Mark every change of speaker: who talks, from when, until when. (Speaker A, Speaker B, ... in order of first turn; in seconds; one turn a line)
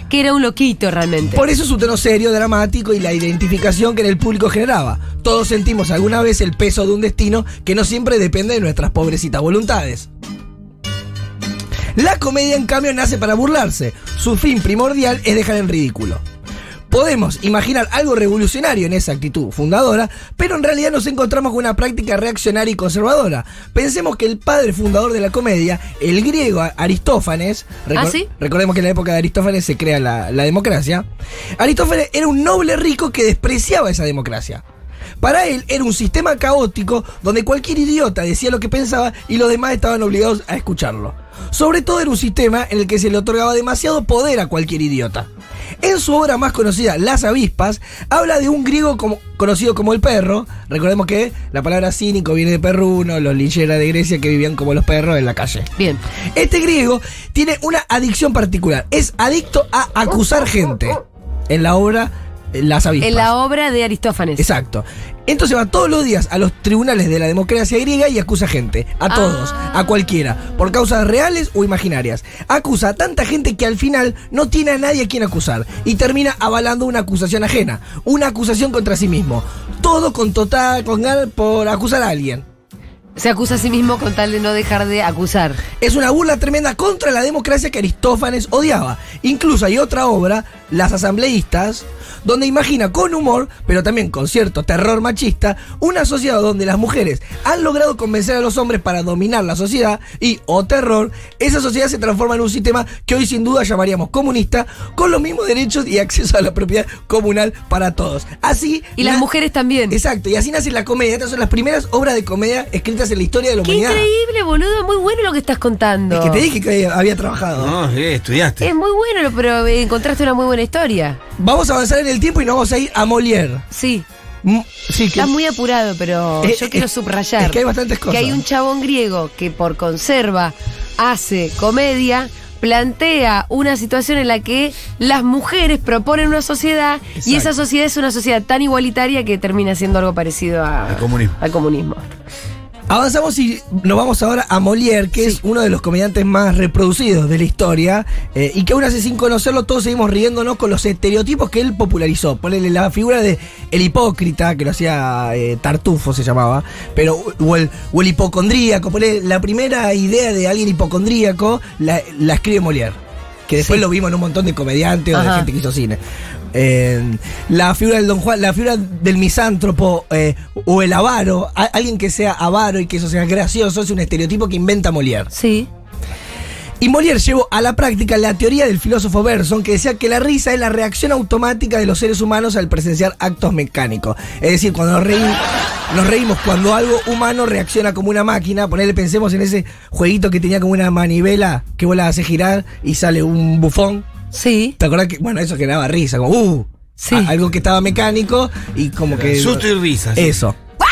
Speaker A: 0.1-1.4
Speaker B: 1.3-10.1
Speaker B: 11.9-16.2
Speaker B: 16.9-31.0
Speaker A: 27.9-28.3
Speaker B: 31.6-34.6
Speaker B: 35.2-45.3
Speaker B: 45.8-55.7
Speaker A: 55.8-56.0
Speaker B: 56.3-63.3
Speaker A: 63.0-64.5
Speaker B: 64.4-82.4
Speaker A: 69.1-69.7
Speaker A: 83.2-85.6
Speaker B: 85.8-109.3
Speaker A: 109.0-110.0
Speaker B: 109.9-114.1
Speaker A: 113.6-116.5
Speaker B: 116.1-117.7
Speaker C: 117.5-118.7
Speaker A: 118.6-121.2
Speaker B: 121.4-123.6
Speaker A: 123.7-124.0
Speaker B: 124.4-125.3
Speaker A: 125.1-142.0
Speaker B: 126.4-128.4
Speaker B: 137.2-137.5
Speaker C: 140.9-141.4
Speaker B: 142.9-166.0
Speaker A: 165.1-165.5
Speaker B: 166.5-175.3
Speaker A: 175.3-175.7
Speaker B: 176.8-185.4
Speaker B: 185.9-194.1
Speaker A: 194.3-194.8
Speaker B: 194.8-200.6
Speaker A: 197.0-197.3
Speaker C: 199.1-200.4